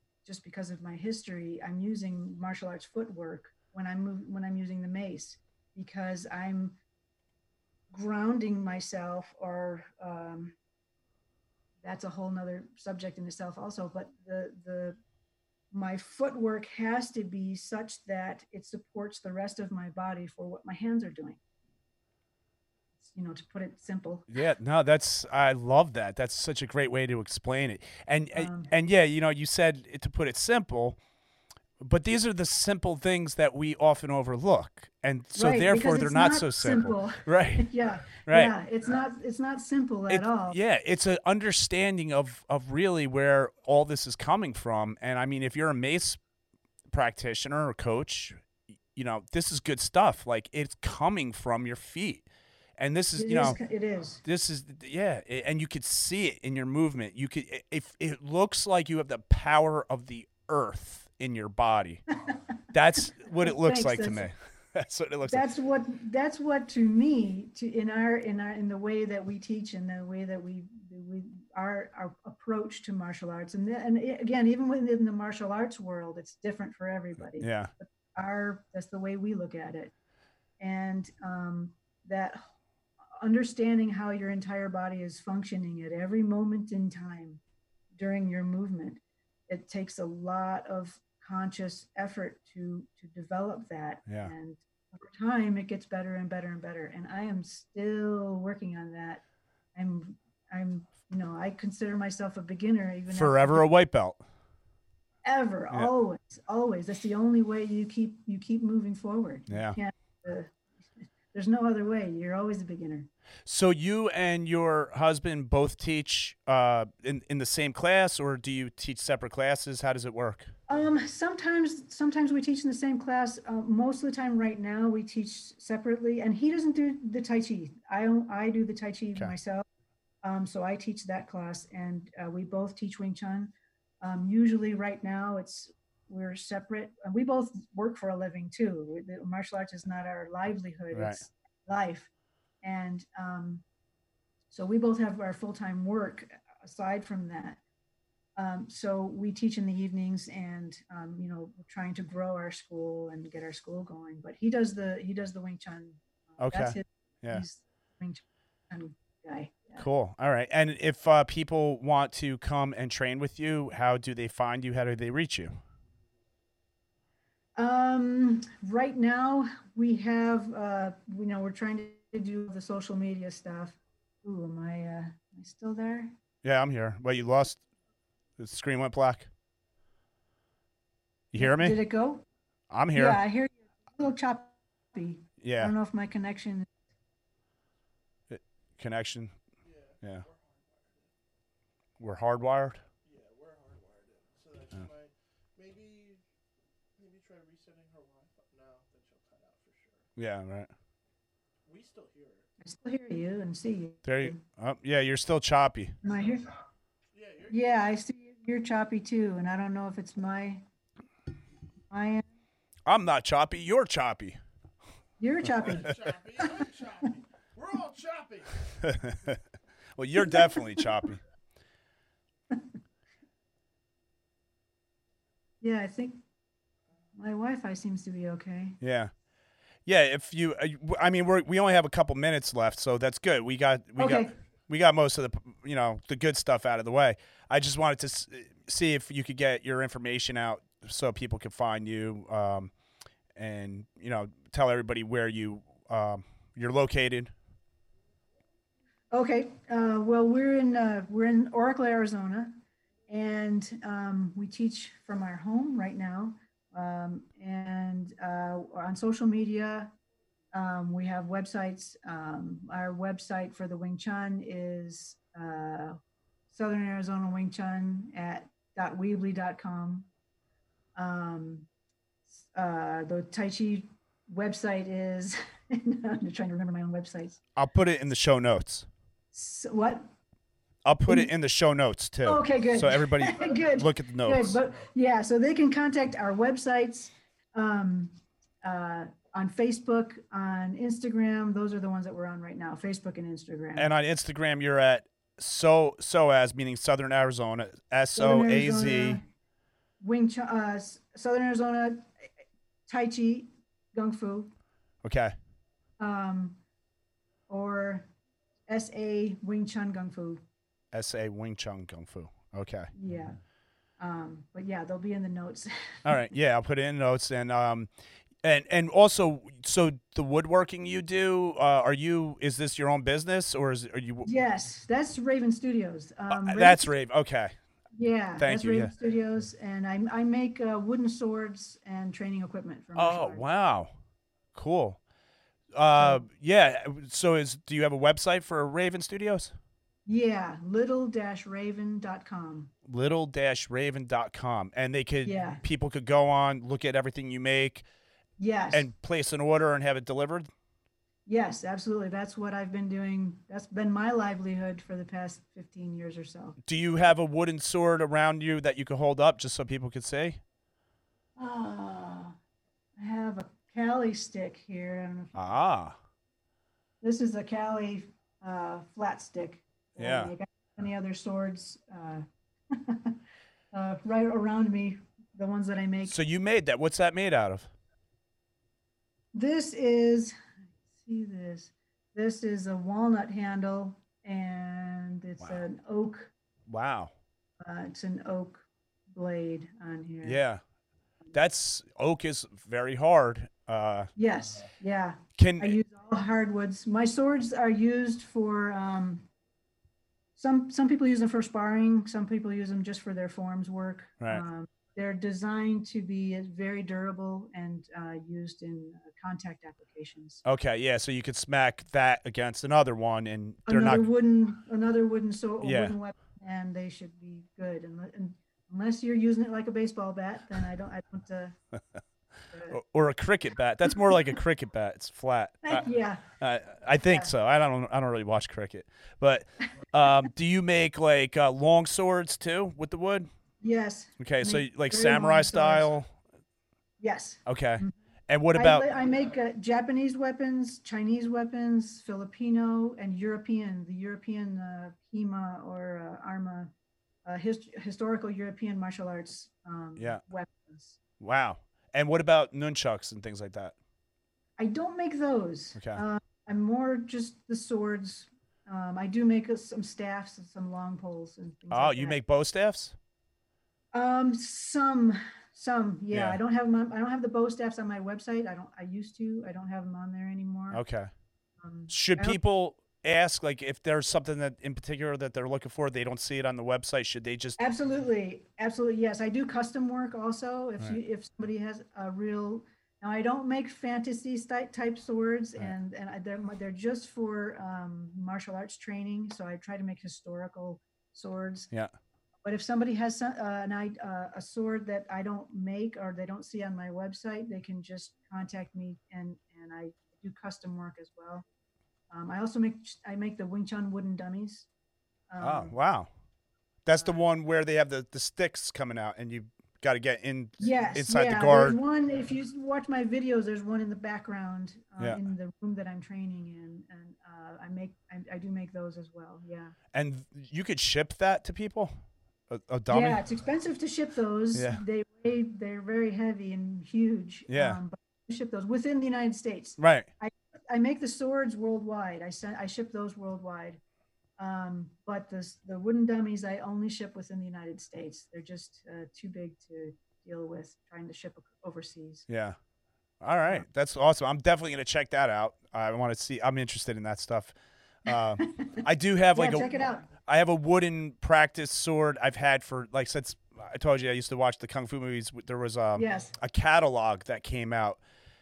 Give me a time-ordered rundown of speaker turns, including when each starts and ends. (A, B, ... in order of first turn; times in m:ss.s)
0:00.2-0:06.8 A
0:07.9-0:10.6 A
0:11.8-0:15.0 A
0:15.7-0:21.4 A
0:23.0-0:24.3 A
0:24.3-0:31.0 B
0:28.3-0:28.7 A
0:31.8-0:38.5 B
0:35.4-0:40.6 A
0:40.1-0:46.2 B
0:46.9-0:48.4 B
0:48.9-0:52.2 B
0:52.8-0:53.6 B
0:53.2-0:54.2 A
0:54.2-1:02.0 B
1:02.7-1:05.4 B
1:03.0-1:04.3 A
1:05.2-1:19.9 A
1:17.4-1:17.7 B
1:20.6-1:22.5 A
1:23.2-1:27.4 A
1:28.0-1:39.2 A
1:34.1-1:34.3 B
1:39.7-1:43.6 A
1:43.1-1:44.2 B
1:45.2-1:50.6 A
1:49.5-1:49.8 B
1:51.3-1:53.1 A
1:53.4-2:00.5 B
2:00.7-2:09.6 A
2:10.2-2:22.1 A
2:20.9-2:21.2 B
2:22.6-2:23.6 A
2:24.5-2:27.6 A
2:28.4-2:39.8 A
2:36.4-2:37.4 B
2:39.8-2:45.5 B
2:47.6-2:56.2 A
2:56.4-2:57.6 B
2:58.4-2:59.3 B
3:01.3-3:01.8 B
3:01.4-3:02.2 A
3:02.7-3:03.2 B
3:02.9-3:06.7 A
3:05.4-3:05.7 B
3:08.3-3:09.3 B
3:09.6-3:11.1 C
3:12.0-3:12.8 B
3:13.0-3:16.2 C
3:17.0-3:20.1 C
3:20.2-3:20.7 B
3:21.6-3:22.5 C
3:22.6-3:24.4 A
3:24.0-3:26.0 B
3:26.0-3:26.5 A
3:27.1-3:27.8 C
3:27.5-3:30.6 A
3:31.9-3:32.3 A
3:32.9-3:34.4 B
3:35.2-3:36.7 A
3:35.6-3:39.4 C
3:38.8-3:39.4 B
3:40.0-3:41.2 B
3:40.2-3:40.9 A
3:45.6-3:46.2 A
3:47.2-3:48.8 A
3:48.8-3:49.1 B
3:49.8-4:02.7 B
3:54.0-3:54.3 A
4:03.3-4:07.3 B
4:09.1-4:19.9 A
4:20.5-4:26.0 A
4:26.5-4:30.1 A
4:31.0-4:31.7 A
4:32.4-4:37.4 A
4:37.6-4:38.9 B
4:39.3-4:40.1 A
4:40.8-4:44.6 B
4:42.2-4:53.9 A
4:53.8-4:59.2 B
4:58.2-4:59.2 A
5:00.0-5:02.1 A
5:02.9-5:04.5 A
5:05.0-5:05.3 B
5:06.0-5:06.6 A
5:07.5-5:08.1 A
5:08.7-5:10.4 A
5:10.9-5:12.9 B
5:12.9-5:13.4 A
5:14.0-5:16.2 A
5:16.0-5:17.9 B
5:18.4-5:24.3 B
5:24.2-5:26.9 A
5:26.3-5:27.5 B
5:27.9-5:33.4 A
5:28.4-5:28.9 B
5:33.0-5:33.9 B
5:34.5-5:35.0 B
5:35.7-5:39.5 B
5:36.0-5:36.2 A
5:40.0-5:42.7 A
5:42.8-5:47.8 B
5:45.2-5:45.6 A
5:48.4-5:48.8 A
5:48.7-5:50.5 B
5:51.3-5:56.6 A
5:56.6-6:00.4 B
6:01.4-6:02.4 A
6:03.0-6:05.4 A
6:05.3-6:06.0 B
6:07.0-6:13.2 A
6:10.0-6:10.3 B
6:13.7-6:16.1 A
6:16.0-6:17.7 B
6:19.3-6:20.4 A
6:20.9-6:26.3 A
6:26.7-6:27.1 B
6:27.6-6:30.4 A
6:30.2-6:30.6 B
6:31.3-6:34.1 B
6:34.2-6:39.3 A
6:35.4-6:35.8 B
6:40.4-6:50.4 A
6:50.4-6:54.1 B
6:53.6-7:01.5 A
6:55.6-6:55.9 B
7:02.5-7:02.8 A
7:02.7-7:13.3 B
7:05.6-7:06.3 A
7:13.6-7:15.9 A
7:14.2-7:16.1 B
7:17.0-7:17.9 A
7:17.4-7:18.9 B
7:18.5-7:26.7 A
7:27.2-7:31.0 A
7:31.2-7:33.7 B
7:34.6-7:42.2 A
7:35.8-7:36.0 B
7:41.7-7:43.0 B
7:43.9-7:50.8 A
7:46.1-7:46.4 B
7:50.7-7:51.1 B
7:51.6-7:52.4 A
7:51.9-7:57.6 B
7:57.6-8:11.7 A
8:12.4-8:21.4 A
8:22.1-8:24.7 A
8:25.3-8:25.7 A
8:25.4-8:26.1 B
8:26.8-8:31.8 B
8:30.6-8:39.7 A
8:39.9-8:41.9 B
8:42.5-8:43.2 B
8:42.9-8:53.8 A
8:44.5-8:44.8 B
8:47.5-8:47.8 B
8:49.8-8:50.1 B
8:54.4-9:02.2 A
9:02.3-9:02.6 B
9:03.2-9:07.5 B
9:08.0-9:18.0 B
9:08.4-9:08.8 A
9:09.3-9:10.1 A
9:16.0-9:16.3 A